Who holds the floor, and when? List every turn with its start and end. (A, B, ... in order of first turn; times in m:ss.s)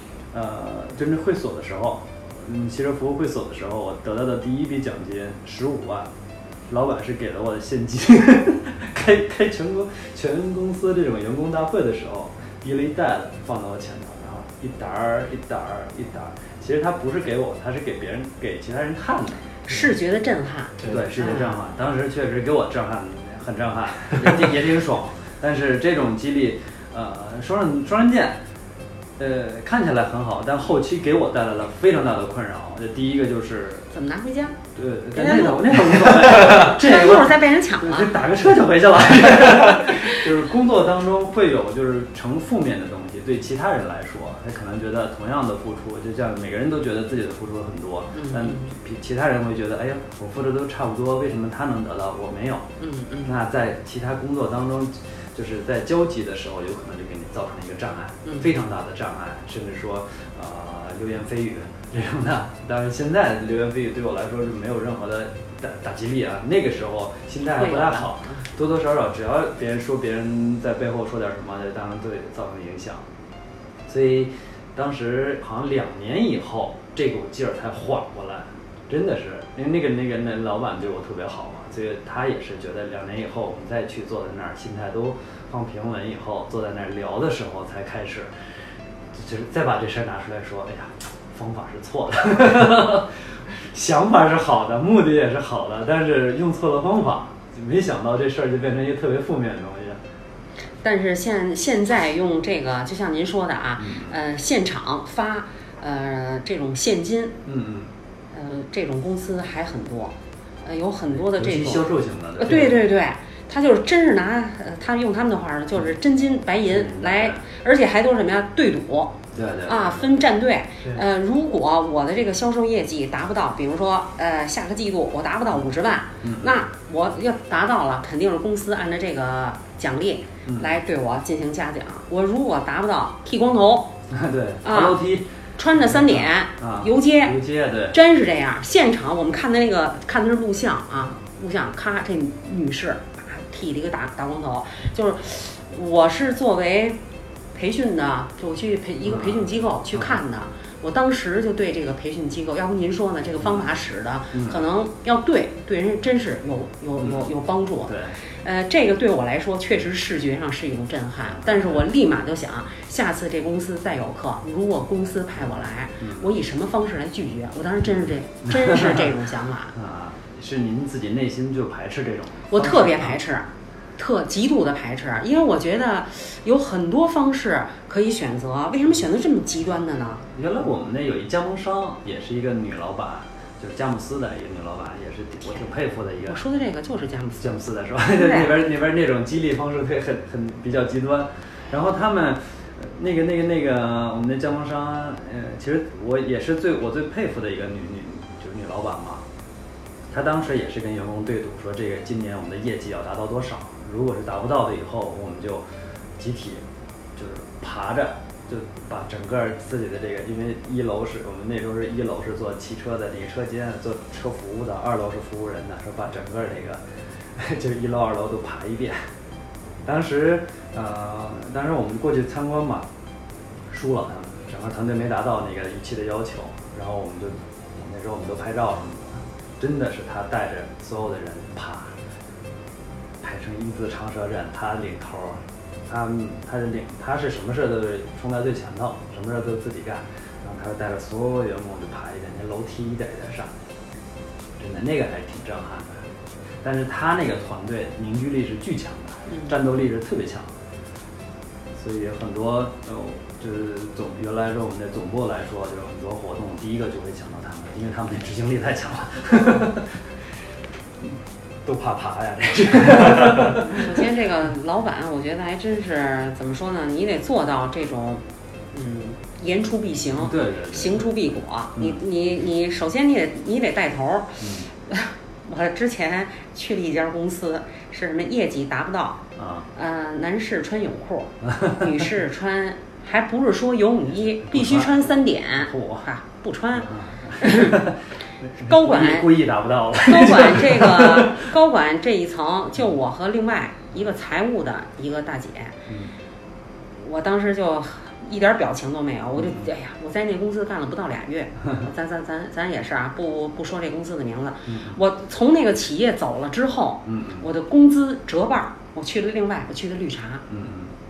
0:00.3-0:06.1 A
0:06.7-0:19.6 A
0:19.7-0:21.6 B
0:20.8-0:28.4 A
0:29.2-0:33.9 A
0:33.9-0:34.6 B
0:34.8-0:52.7 A
0:35.1-0:38.1 B
0:39.8-0:40.3 B
0:48.1-0:48.7 B
0:52.8-0:53.3 B
0:53.2-1:13.1 A
0:58.2-0:58.5 B
1:07.6-1:08.4 B
1:13.9-1:40.0 A
1:40.8-1:47.4 B
1:43.8-1:44.2 A
1:47.5-1:47.9 A
1:48.3-1:51.9 B
1:51.3-1:52.8 A
1:52.4-2:13.9 B
1:56.7-1:57.4 A
1:59.3-2:00.1 A
2:06.2-2:06.5 A
2:10.5-2:10.8 A
2:14.1-2:15.3 A
2:14.6-2:15.0 B
2:15.6-2:17.4 B
2:15.8-2:18.0 A
2:17.9-2:27.0 B
2:27.6-2:49.7 B
2:29.0-2:30.2 A
2:34.3-2:34.6 A
2:37.0-2:37.3 A
2:37.9-2:38.2 A
2:41.3-2:41.9 A
2:46.0-2:46.3 A
2:48.5-2:49.1 A
2:49.8-2:53.2 A
2:52.5-3:00.2 B
3:00.3-3:06.4 A
3:06.2-3:07.5 B
3:07.4-3:19.2 A
3:08.1-3:08.6 B
3:20.1-3:25.7 A
3:26.2-3:26.6 A
3:27.2-3:39.1 A
3:39.8-3:42.9 A
3:43.7-3:52.0 A
3:53.2-4:03.6 A
4:04.6-4:06.0 A
4:06.6-4:10.6 A
4:09.3-4:09.5 B
4:11.8-4:20.2 A
4:21.0-4:24.0 A
4:23.7-4:39.2 B
4:30.2-4:31.1 A
4:34.4-4:34.7 A
4:39.4-4:39.7 A
4:39.8-4:47.8 B
4:41.5-4:41.8 A
4:44.3-4:45.0 A
4:45.6-4:46.1 A
4:46.8-4:51.4 A
4:48.6-4:49.3 B
4:50.0-4:55.8 B
4:55.9-4:56.2 A
4:57.0-5:10.4 B
4:59.4-4:59.7 A
5:04.7-5:05.0 A
5:07.1-5:07.5 A
5:10.5-5:10.9 A